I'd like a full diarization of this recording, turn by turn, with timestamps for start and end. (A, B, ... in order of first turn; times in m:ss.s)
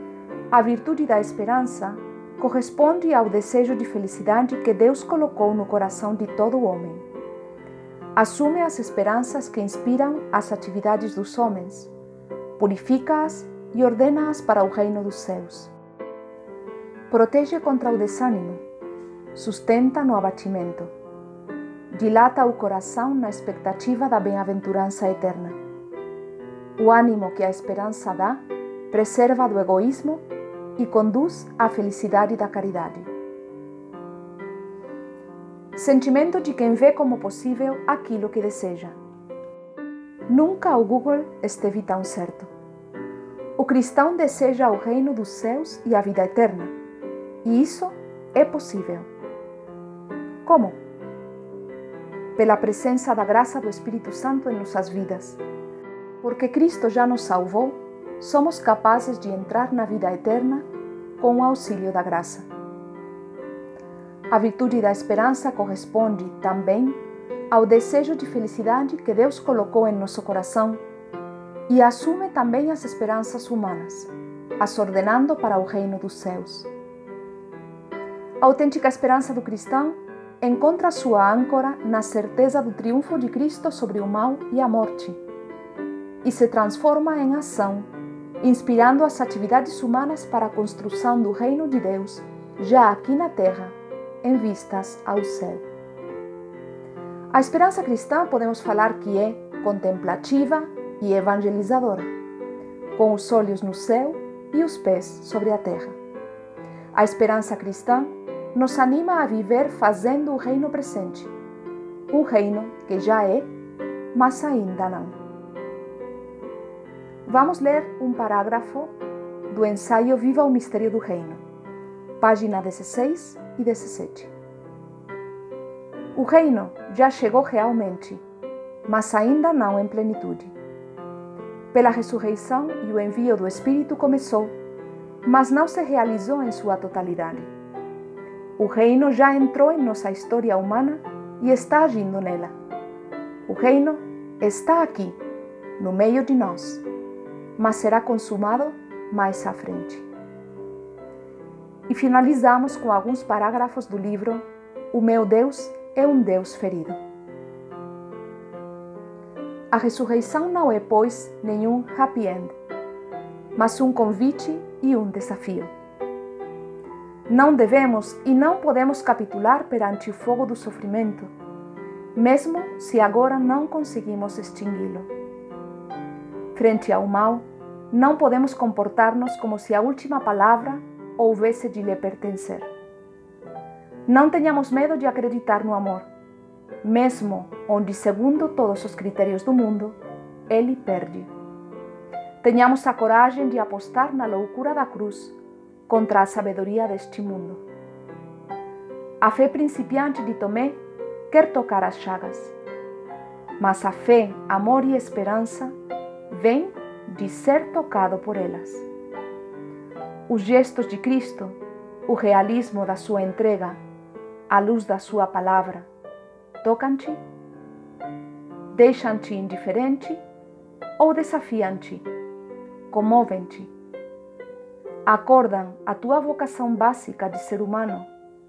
0:00.5-0:07.0 A
0:08.2-0:11.9 A
0:12.6-0:15.7 A
0:17.1-0:18.6 A
0:19.4-0:20.9 A
0:21.9-0:25.6 A
0:26.8-0:30.2 A
0:30.8-0:33.1 A
0:35.8-0:39.0 A
0:40.3-0:42.5 A
0:43.6-0:46.7 A
0:47.4-0:49.1 A
0:50.4-0:50.8 A
0:52.4-0:55.4 A
0:56.2-1:00.6 A
1:01.2-1:02.5 A
1:04.3-1:07.0 A
1:07.5-1:10.8 A
1:11.7-1:16.7 A
1:18.4-1:25.2 A
1:26.2-1:27.9 A
1:28.4-1:35.6 A
1:37.3-1:42.1 A
1:43.0-1:46.0 A
1:46.9-1:51.3 A
1:52.1-1:53.5 A
1:54.1-1:55.2 A
1:57.3-1:59.0 A
1:59.5-2:01.4 A
2:02.2-2:04.3 A
2:06.1-2:08.2 A
2:08.9-2:10.5 A
2:11.7-2:14.6 A
2:15.2-2:17.5 A
2:18.6-2:22.5 A
2:23.5-2:25.2 A
2:25.8-2:26.8 A
2:27.6-2:30.1 A
2:31.9-2:37.0 A
2:39.7-2:42.6 A
2:43.6-2:45.7 A
2:47.3-2:51.3 A
2:52.2-2:55.1 A
2:56.6-3:02.7 A
3:04.1-3:06.1 A
3:06.8-3:10.0 A
3:10.5-3:11.3 A
3:12.4-3:15.4 A
3:15.9-3:17.6 A
3:19.2-3:22.5 A
3:23.6-3:25.7 A
3:26.3-3:28.9 A
3:30.3-3:33.8 A
3:34.5-3:35.9 A
3:36.6-3:37.2 A
3:38.7-3:40.2 A
3:41.0-3:42.1 A
3:42.9-3:43.7 A
3:45.1-3:48.1 A